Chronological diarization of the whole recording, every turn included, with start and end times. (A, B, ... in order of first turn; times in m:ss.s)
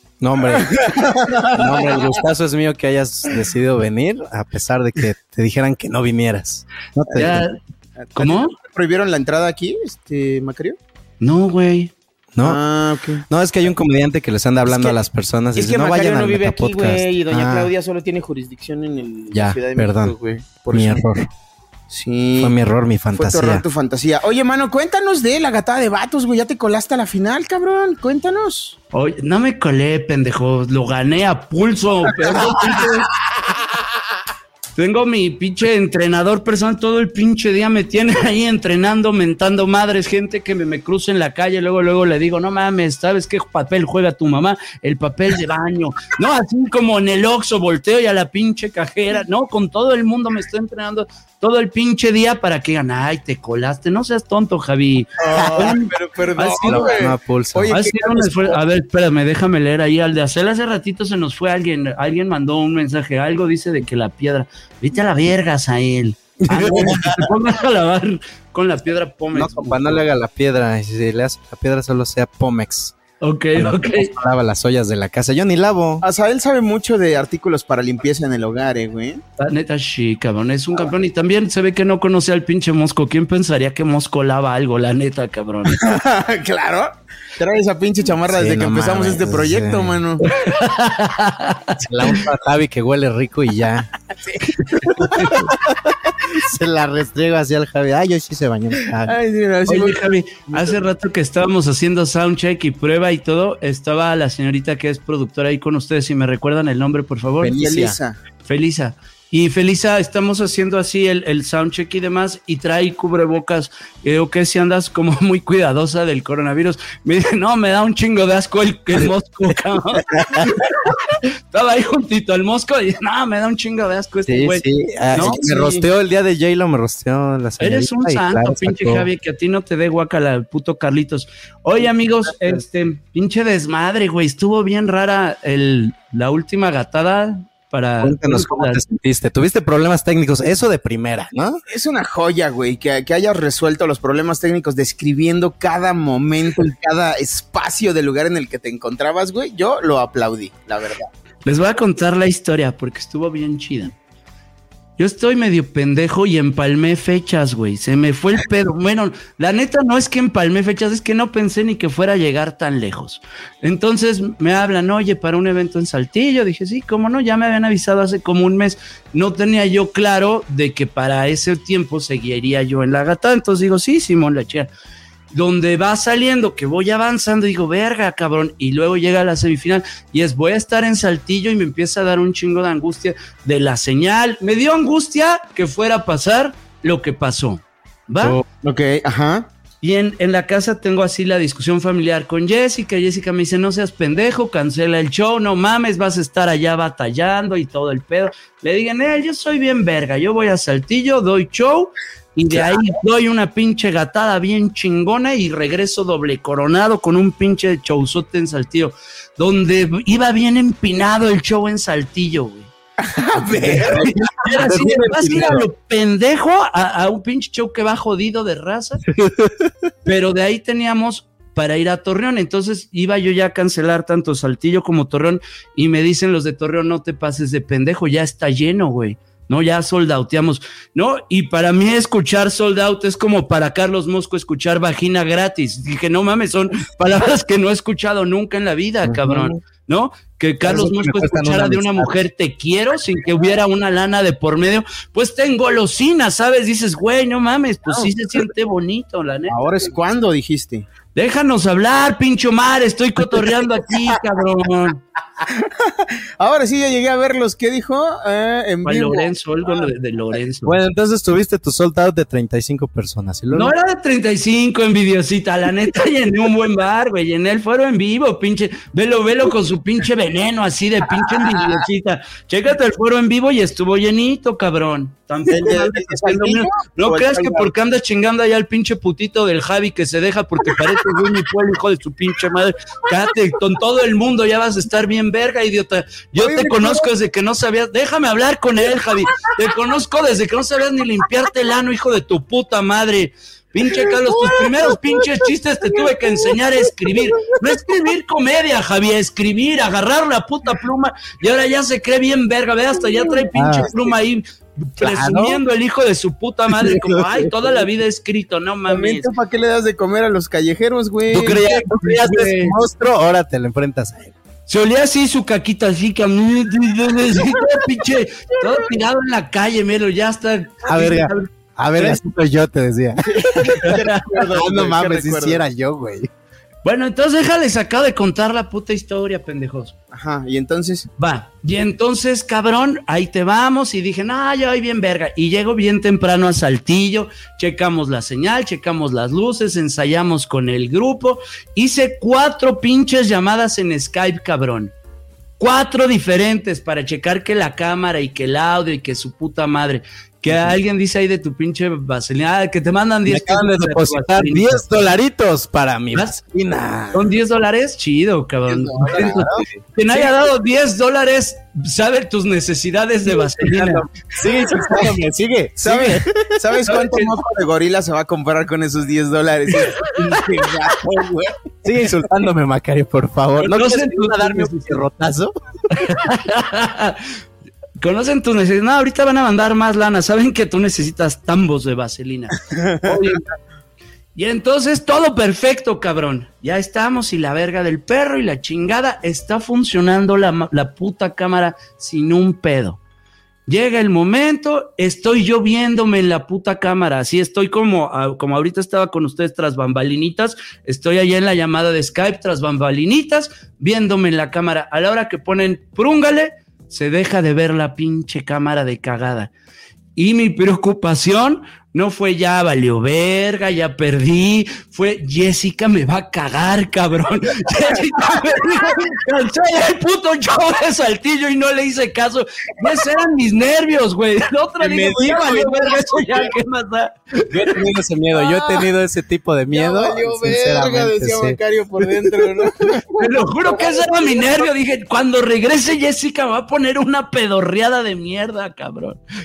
0:00.2-0:07.5 A
0:01.6-0:02.0 B
0:07.1-0:07.6 C
0:08.0-0:10.8 B
0:08.2-0:08.5 C
0:11.2-0:11.9 C
0:12.3-0:12.6 A
0:12.4-0:13.2 B
0:13.3-0:17.7 A
0:14.6-0:15.0 B
0:15.6-0:21.1 B
0:19.3-0:20.2 A
0:20.7-0:21.3 A
0:21.9-0:22.6 B
0:22.4-0:23.6 A
0:23.1-0:28.8 B
0:28.9-0:33.1 C
0:34.8-0:57.0 C
0:55.2-0:58.6 B
0:55.2-0:55.7 A
0:56.6-0:57.7 A
0:57.7-1:10.0 C
1:06.5-1:07.3 A
1:09.3-1:13.0 A
1:13.2-1:14.1 C
1:13.5-1:16.0 A
1:16.0-1:19.2 B
1:19.4-1:25.8 C
1:25.7-1:30.2 B
1:28.2-1:30.0 A
1:30.2-1:32.2 C
1:31.8-1:33.9 A
1:34.2-1:35.3 B
1:34.8-1:35.5 C
1:35.2-1:35.5 A
1:36.3-1:39.1 A
1:39.0-1:40.8 B
1:39.7-1:47.6 C
1:47.4-1:48.0 A
1:47.6-1:48.2 B
1:48.4-2:00.6 C
2:00.0-2:00.6 A
2:01.5-2:05.4 C
2:04.2-2:09.1 A
2:05.1-2:05.9 B
2:07.6-2:18.8 C
2:18.0-2:21.6 A
2:21.7-2:31.1 B
2:31.4-2:33.9 C
2:35.0-2:54.7 C
2:55.3-3:08.4 C
3:08.6-3:09.5 B
3:09.8-3:32.7 C
3:33.0-3:34.1 B
3:33.5-3:35.6 A
3:33.6-3:39.0 C
3:39.0-3:39.7 A
3:40.0-4:09.6 C
3:59.0-3:59.6 A
4:00.6-4:02.2 A
4:09.5-4:10.9 B
4:11.1-4:15.0 C
4:15.6-4:19.3 B
4:18.8-4:20.8 C
4:20.6-4:23.8 A
4:23.5-5:04.4 C
4:35.5-4:37.7 B
4:46.4-4:47.1 B
5:03.1-5:03.9 B
5:03.5-5:03.9 A
5:05.0-5:09.3 C
5:05.0-5:05.6 A
5:06.8-5:07.4 A
5:08.9-5:11.7 B
5:11.3-5:14.3 A
5:11.4-5:12.8 C
5:14.7-5:22.2 C
5:20.8-5:23.9 A
5:23.2-5:25.6 B
5:24.5-5:26.3 A
5:26.8-5:29.9 C
5:30.1-5:31.1 B
5:31.2-5:44.9 C
5:45.6-5:54.9 C
5:50.5-5:50.8 A
5:53.2-5:57.3 A
5:57.1-6:04.0 C
5:58.7-5:59.5 B
5:59.0-5:59.6 A
6:03.6-6:06.5 A
6:05.8-6:11.5 B
6:06.9-6:07.3 C
6:11.8-6:15.5 A
6:13.6-6:15.0 C
6:15.9-6:17.2 C
6:18.0-6:23.4 C
6:22.7-6:23.0 B
6:24.3-6:33.0 C
6:33.7-6:49.5 C
6:50.2-7:07.2 C
7:04.8-7:06.5 B
7:07.5-7:11.6 A
7:08.3-7:08.8 B
7:09.7-7:13.2 B
7:13.2-7:19.2 C
7:13.8-7:14.6 B